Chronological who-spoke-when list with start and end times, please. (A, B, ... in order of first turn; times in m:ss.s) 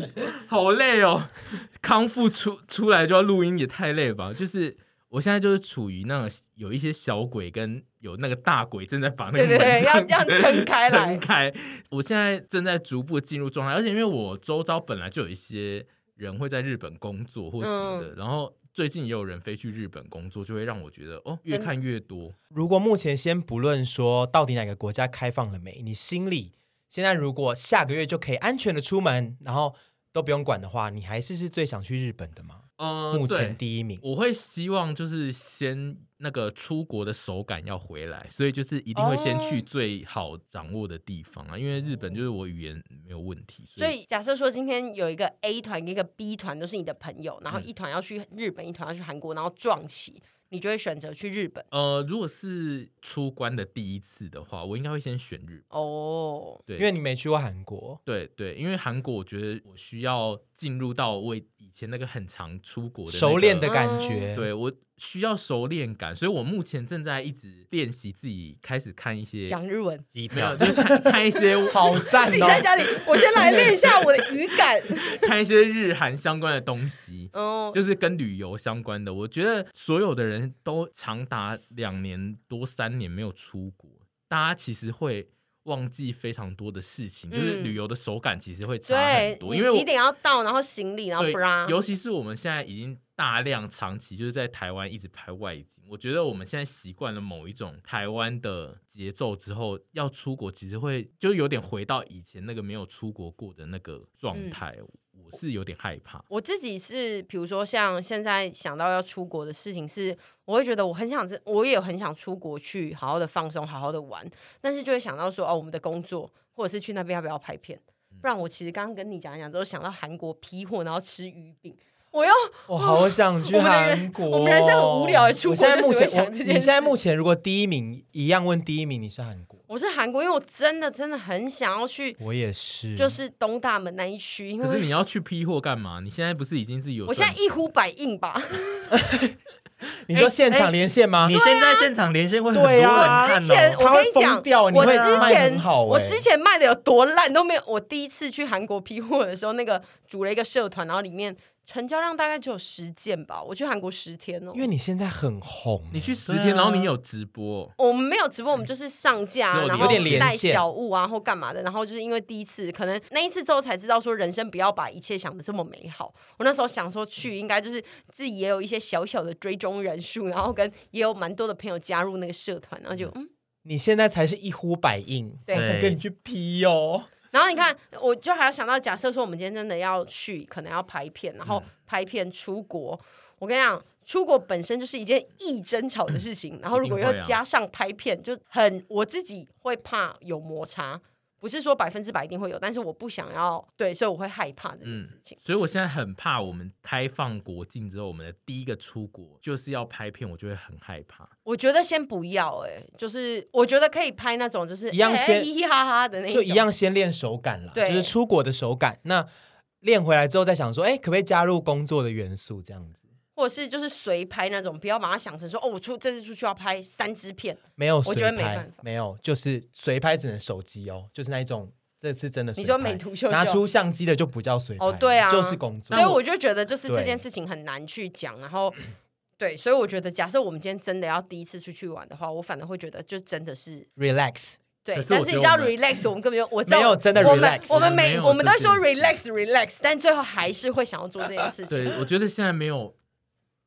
0:00.2-0:22.4 A
0:09.3-0:11.2 B
0:17.6-0:18.1 B
0:22.5-0:34.0 C
0:32.8-0:44.0 A
0:39.0-0:39.6 B
0:43.8-0:51.7 B
0:51.7-0:55.6 A
0:55.7-0:56.6 B
0:56.8-0:58.0 C
0:58.1-1:03.7 A
1:03.1-1:04.5 C
1:03.6-1:04.3 B
1:04.3-1:09.6 A
1:09.5-1:10.0 B
1:10.1-1:10.8 D
1:10.3-1:12.1 A
1:11.7-1:13.9 C
1:12.1-1:15.3 B
1:15.2-1:29.9 A
1:17.3-1:17.8 B
1:27.3-1:27.8 B
1:28.9-1:31.8 B
1:31.2-1:46.3 A
1:44.3-1:44.6 B
1:46.3-2:07.0 B
2:02.7-2:09.6 C
2:09.7-2:12.2 B
2:12.2-2:13.2 C
2:13.0-2:14.9 B
2:14.6-2:17.5 A
2:17.1-2:19.0 B
2:20.1-2:21.4 C
2:20.1-2:20.7 A
2:21.2-2:23.9 D
2:21.3-2:21.9 B
2:22.5-2:26.3 C
2:22.9-2:34.7 B
2:24.8-2:25.4 D
2:34.5-2:36.2 C
2:35.9-2:37.7 A
2:36.3-2:36.9 D
2:37.8-2:53.3 B
2:39.5-2:40.3 A
2:39.8-2:40.6 C
2:53.6-2:57.1 C
2:55.5-2:55.7 B
2:55.5-2:56.0 D
2:57.3-3:15.4 B
3:06.7-3:07.4 A
3:14.8-3:21.3 A
3:21.5-3:26.6 B
3:24.9-3:25.5 C
3:26.3-3:29.3 C
3:27.7-3:28.2 B
3:29.8-3:33.0 C
3:33.4-3:38.8 B
3:37.8-3:46.2 C
3:42.6-3:43.6 B
3:44.8-3:48.8 B
3:45.9-3:46.2 A
3:46.8-3:47.2 C
3:49.4-3:53.9 B
3:54.0-3:54.6 C
3:54.8-4:02.0 B
3:54.9-3:55.8 A
3:56.7-3:58.1 C
3:57.2-3:59.2 A
4:01.7-4:02.9 A